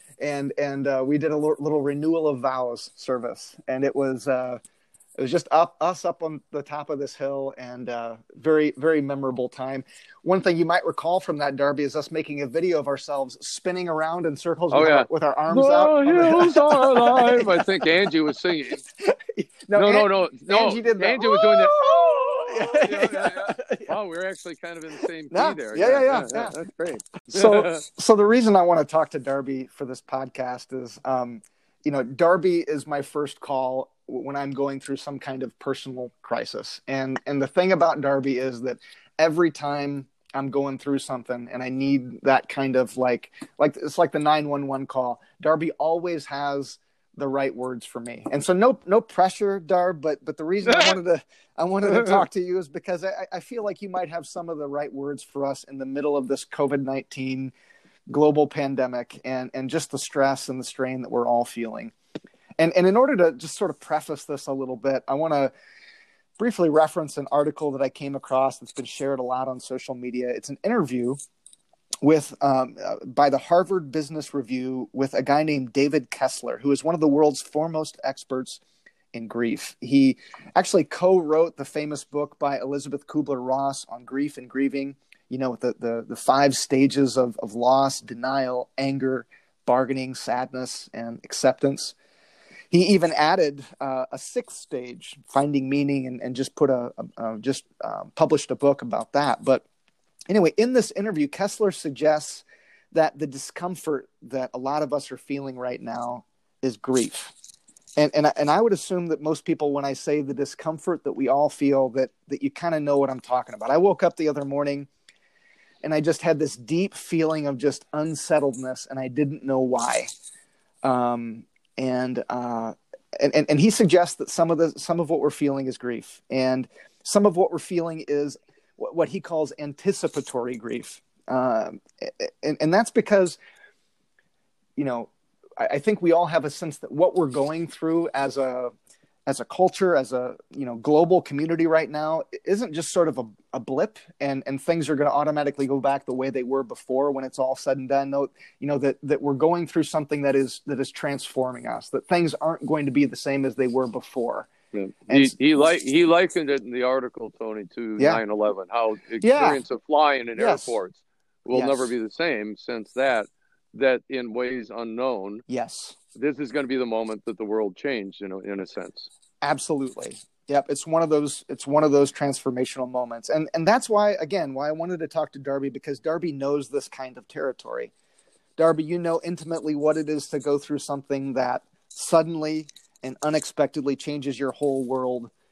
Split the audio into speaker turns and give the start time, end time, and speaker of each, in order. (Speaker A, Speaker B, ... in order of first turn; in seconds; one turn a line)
Speaker A: 0.2-4.6
Speaker A: 5.2-17.7
Speaker B: 14.7-18.8
Speaker A: 19.0-24.0
Speaker B: 19.8-27.8
Speaker A: 25.3-26.6
Speaker A: 27.3-57.5
Speaker B: 50.6-51.0
Speaker B: 51.9-52.3
Speaker A: 58.1-61.9
Speaker A: 62.6-65.5
Speaker A: 66.4-71.2
Speaker A: 72.0-78.6
Speaker A: 79.1-92.0
Speaker A: 92.7-99.7
Speaker A: 100.3-107.3
Speaker A: 108.0-114.9
Speaker A: 115.8-120.1
Speaker A: 120.8-133.4
Speaker A: 134.8-138.7
Speaker A: 139.3-154.5
Speaker B: 154.7-165.4
Speaker A: 155.1-155.4
Speaker A: 159.2-159.6
Speaker A: 160.4-160.8
Speaker A: 161.5-161.9
Speaker A: 165.5-166.0
Speaker B: 166.2-169.1
Speaker A: 169.4-177.9
Speaker A: 178.6-185.3